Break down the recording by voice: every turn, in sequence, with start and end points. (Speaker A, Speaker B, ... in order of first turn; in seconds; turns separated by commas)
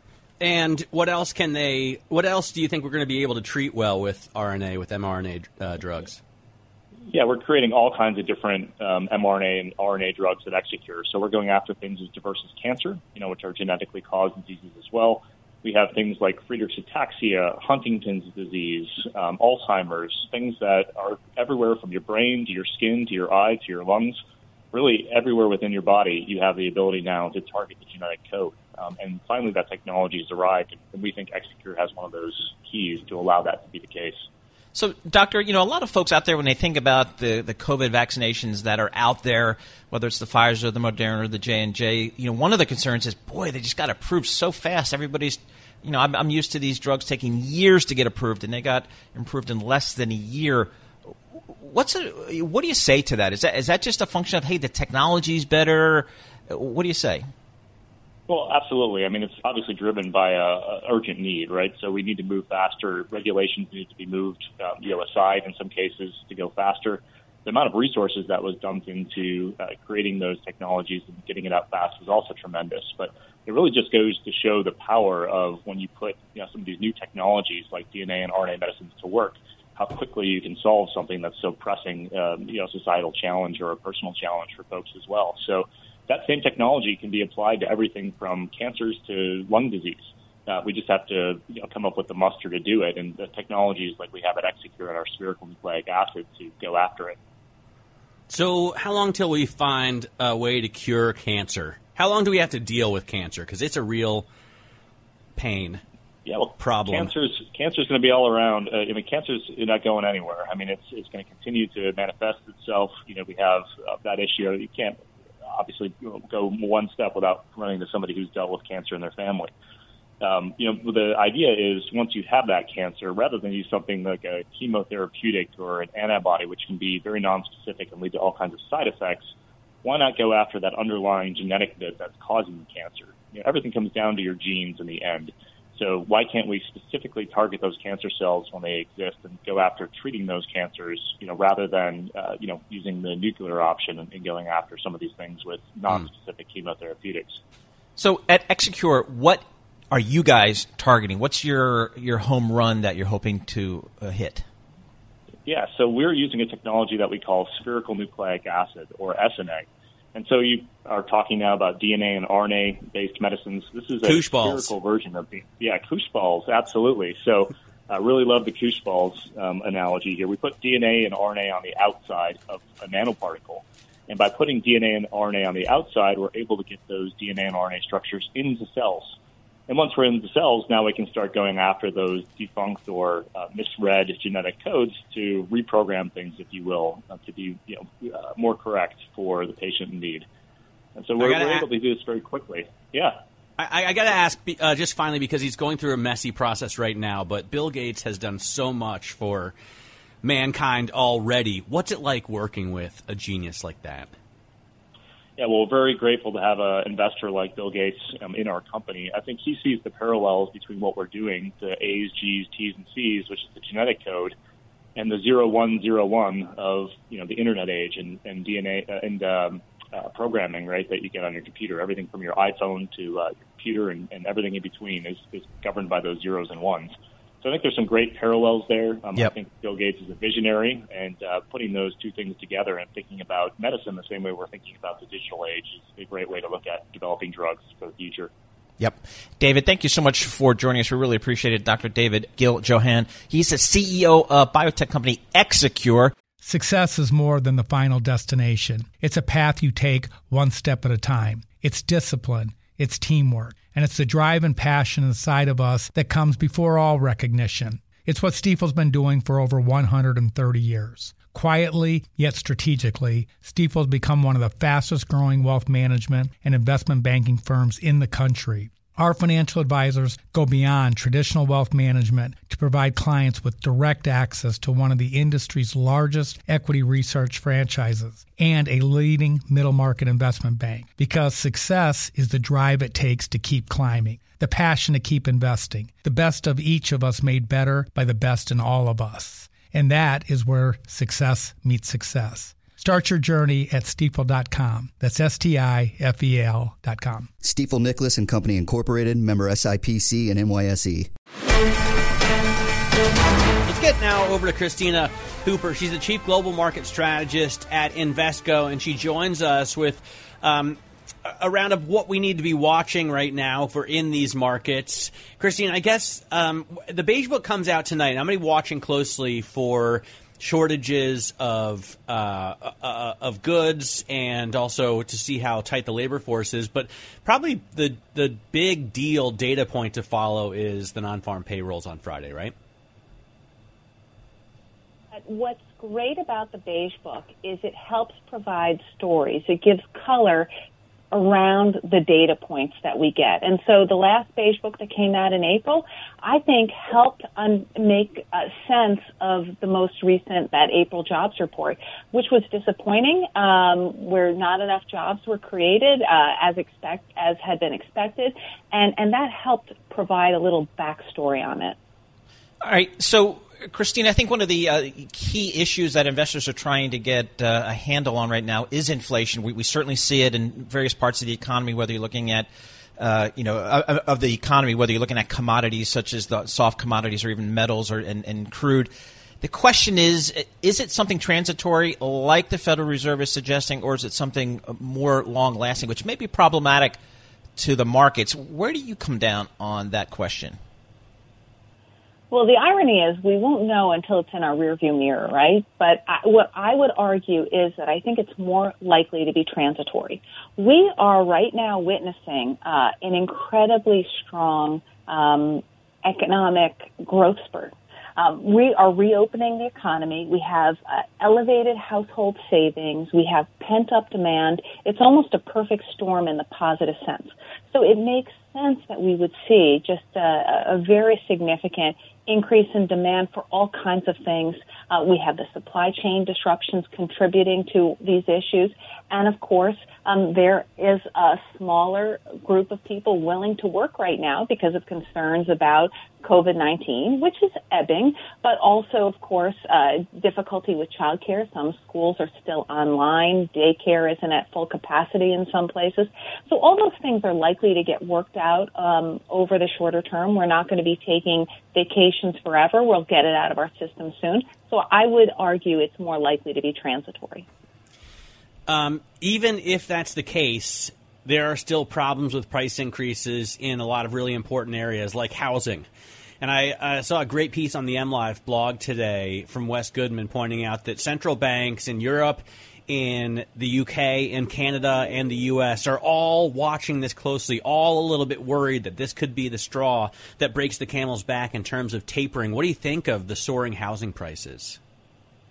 Speaker A: 0.4-6.2, Speaker B: 7.1-24.2, Speaker B: 24.7-34.2, Speaker C: 34.7-50.7, Speaker C: 51.5-57.2, Speaker B: 58.3-97.2, Speaker A: 98.3-104.3, Speaker A: 105.3-105.8, Speaker B: 106.2-115.0, Speaker A: 106.6-107.1, Speaker B: 115.5-119.5, Speaker B: 120.2-129.3, Speaker B: 129.8-147.4, Speaker C: 148.0-154.4, Speaker B: 155.4-179.2, Speaker A: 164.0-164.7, Speaker B: 179.7-190.2, Speaker B: 190.9-193.2, Speaker A: 191.2-191.7, Speaker A: 193.6-199.5, Speaker A: 200.2-204.1, Speaker B: 205.4-214.3, Speaker B: 214.9-238.3, Speaker C: 238.8-246.1, Speaker D: 246.4-297.3, Speaker E: 297.4-301.1, Speaker A: 303.6-332.5, Speaker F: 335.1-340.5, Speaker F: 341.1-361.8, Speaker C: 362.6-378.9, Speaker C: 379.4-387.0, Speaker C: 387.6-390.6, Speaker F: 392.3-457.4, Speaker A: 458.7-465.9, Speaker A: 466.4-484.8